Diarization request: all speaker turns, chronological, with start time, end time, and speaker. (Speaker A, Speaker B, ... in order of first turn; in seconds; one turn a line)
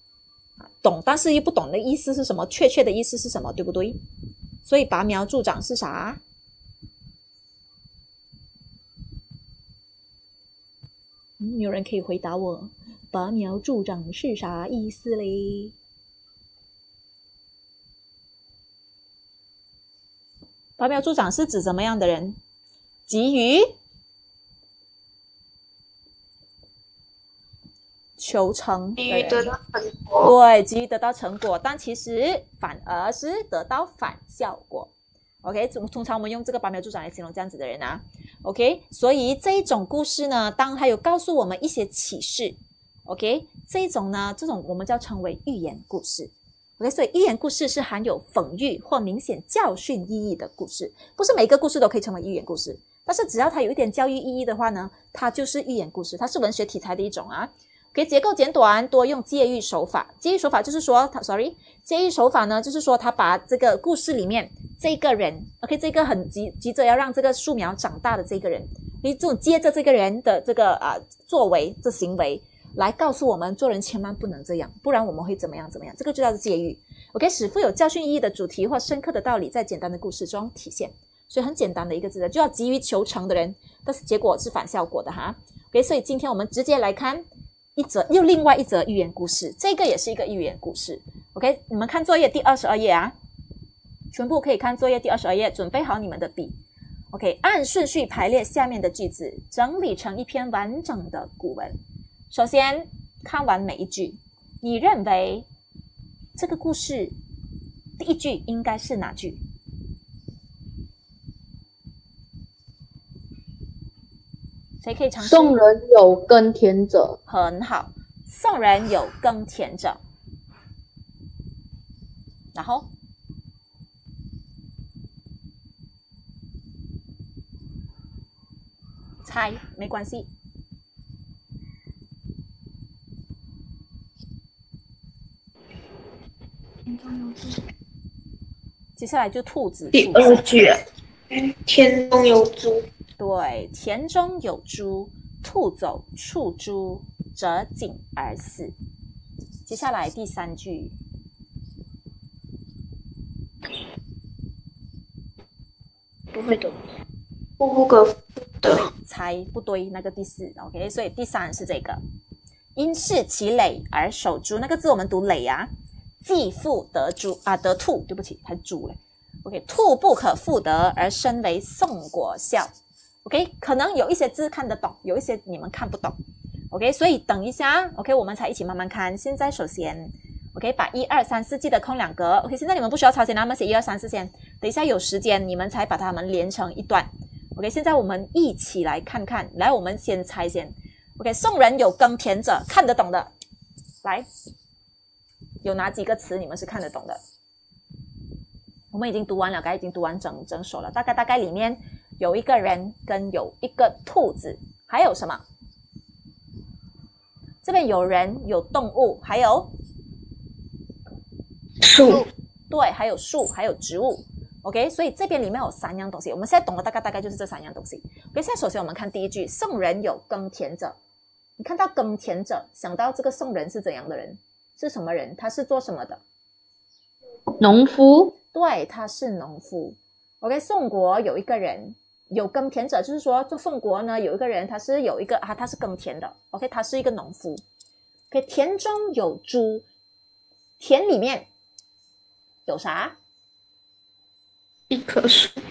Speaker A: 0.8-4.0
Speaker A: 4.7-6.2
Speaker A: 11.4-15.7
Speaker A: 20.8-22.4
Speaker A: 23.1-23.8
Speaker A: 28.2-29.5
Speaker B: 29.0-30.3
Speaker A: 30.2-34.9
Speaker A: 35.4-87.2
Speaker A: 87.8-93.1
Speaker A: 94.1-96.6
Speaker A: 97.1-101.8
Speaker A: 102.3-105.5
Speaker A: 106.4-107.2
Speaker A: 108.0-109.4
Speaker A: 114.8-115.6
Speaker C: 115.2-117.2
Speaker A: 117.3-120.0
Speaker A: 122.5-122.9
Speaker A: 129.2-130.3
Speaker A: 139.0-140.5
Speaker B: 139.9-142.8
Speaker A: 143.2-148.7
Speaker A: 149.7-150.9
Speaker B: 156.3-156.8
Speaker B: 157.6-158.9
Speaker A: 158.7-162.0
Speaker A: 162.8-165.7
Speaker A: 166.2-172.7
Speaker A: 173.2-176.2
Speaker A: 176.7-193.3
Speaker A: 195.6-197.2
Speaker A: 198.9-205.4
Speaker A: 207.6-209.7
Speaker B: 211.8-212.3
Speaker A: 212.7-221.0
Speaker A: 221.6-226.2
Speaker C: 227.6-228.3
Speaker A: 228.5-237.6
Speaker A: 238.3-239.9
Speaker A: 240.8-241.5
Speaker A: 242.7-243.2
Speaker B: 244.9-245.6